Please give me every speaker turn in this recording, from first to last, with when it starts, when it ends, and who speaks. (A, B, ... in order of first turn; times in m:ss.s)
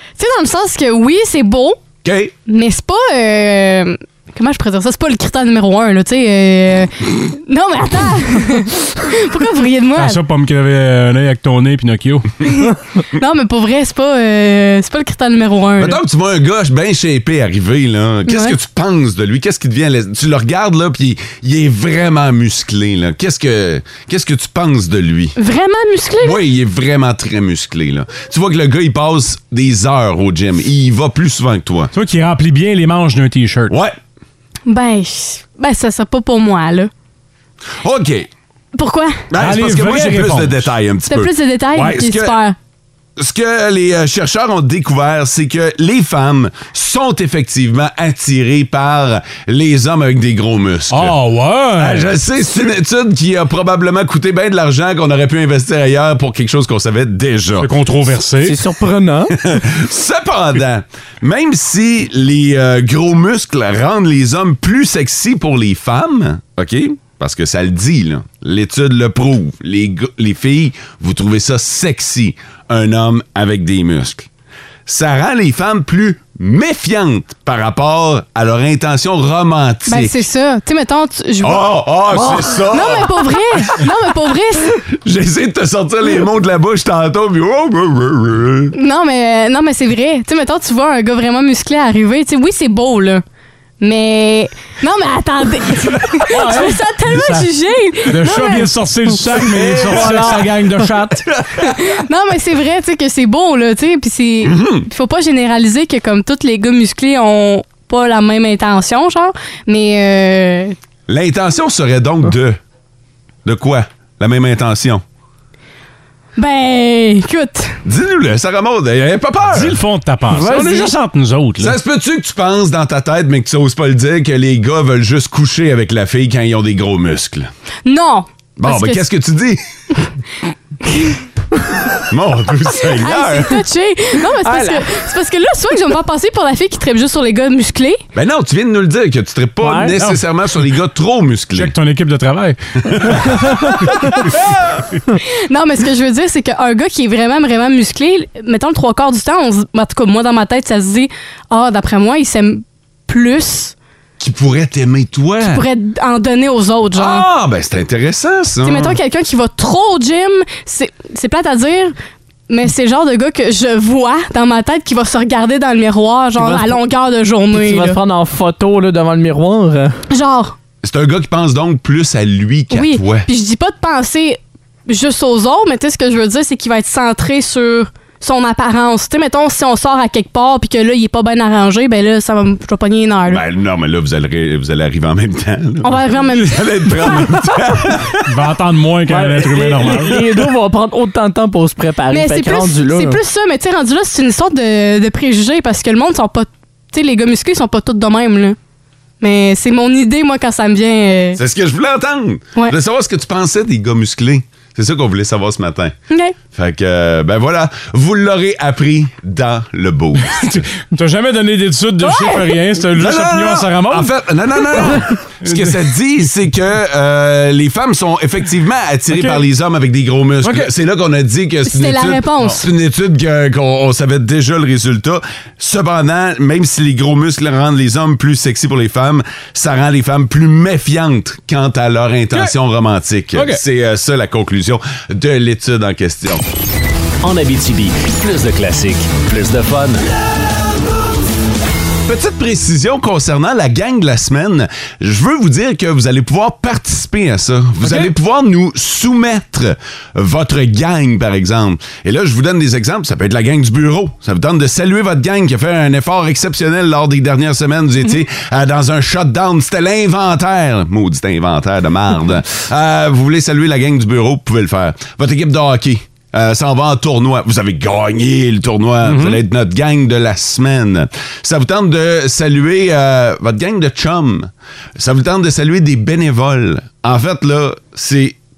0:00.2-0:01.8 A
0:02.0-0:02.3 B
0:02.5-0:10.2 A
0:10.0-0:12.6 C
0:12.4-0:16.0 A
0:15.8-0:25.4 B
0:18.3-0:18.6 A
0:25.4-0:26.4 A
0:26.2-0:31.9 B
0:31.9-0:33.8 C
0:33.7-0:34.0 B
0:34.7-0:36.9 A
0:37.8-0:38.3 B
0:38.8-0:39.2 A
0:39.3-0:42.4 B
0:39.4-0:40.7 C
0:41.1-0:42.6 A
0:43.2-0:51.1 B
0:50.9-0:52.1 C
0:51.8-0:57.7 B
0:57.6-0:58.6 C
0:58.4-0:59.4 D
0:59.4-1:14.3 B
1:14.9-1:20.2 B
1:19.9-1:24.8 A
1:21.4-1:23.1 B
1:24.9-1:28.7 B
1:28.7-1:33.2 A
1:33.8-1:38.7 A
1:36.3-1:37.5 C
1:38.1-1:41.2 C
1:39.8-1:40.6 D
1:41.6-1:50.8 A
1:44.4-1:44.9 B
1:51.1-1:52.6 B
1:53.4-1:55.0 B
1:56.4-1:57.8 A
1:57.8-1:59.8 B
1:59.5-2:01.8 C
2:00.3-2:00.9 D
2:00.5-2:00.9 A
2:01.6-2:07.5 B
2:07.9-2:09.1 A
2:08.6-2:09.6 B
2:12.1-2:13.6 B
2:13.0-2:18.0 A
2:14.4-2:14.9 D
2:18.1-2:21.7 B
2:19.6-2:20.0 D
2:21.5-2:23.6 C
2:22.9-2:23.5 B
2:24.3-2:24.8 B
2:25.5-2:33.8 A
2:34.2-2:35.6 B
2:35.4-2:37.3 A
2:36.9-2:39.0 B
2:38.6-2:42.0 A
2:42.5-2:48.0 A
2:46.4-2:46.8 D
2:47.5-2:50.0 D
2:50.1-2:50.5 A
2:50.8-2:53.3 B
2:52.7-3:03.4 A
3:03.3-3:08.2 B
3:05.8-3:07.0 A
3:08.2-3:10.4 C
3:09.1-3:13.2 D
3:12.1-3:18.6 A
3:19.2-3:21.4 A
3:21.4-3:26.0 B
3:26.1-3:26.4 A
3:26.5-3:30.6 B
3:30.4-3:34.1 C
3:32.0-3:32.6 A
3:33.0-3:56.4 B
3:34.7-3:35.8 C
3:39.1-3:39.4 C
3:40.4-3:40.7 C
3:41.6-3:42.6 A
3:57.2-4:00.0 E
4:02.0-4:38.4 B
4:29.0-4:29.4 C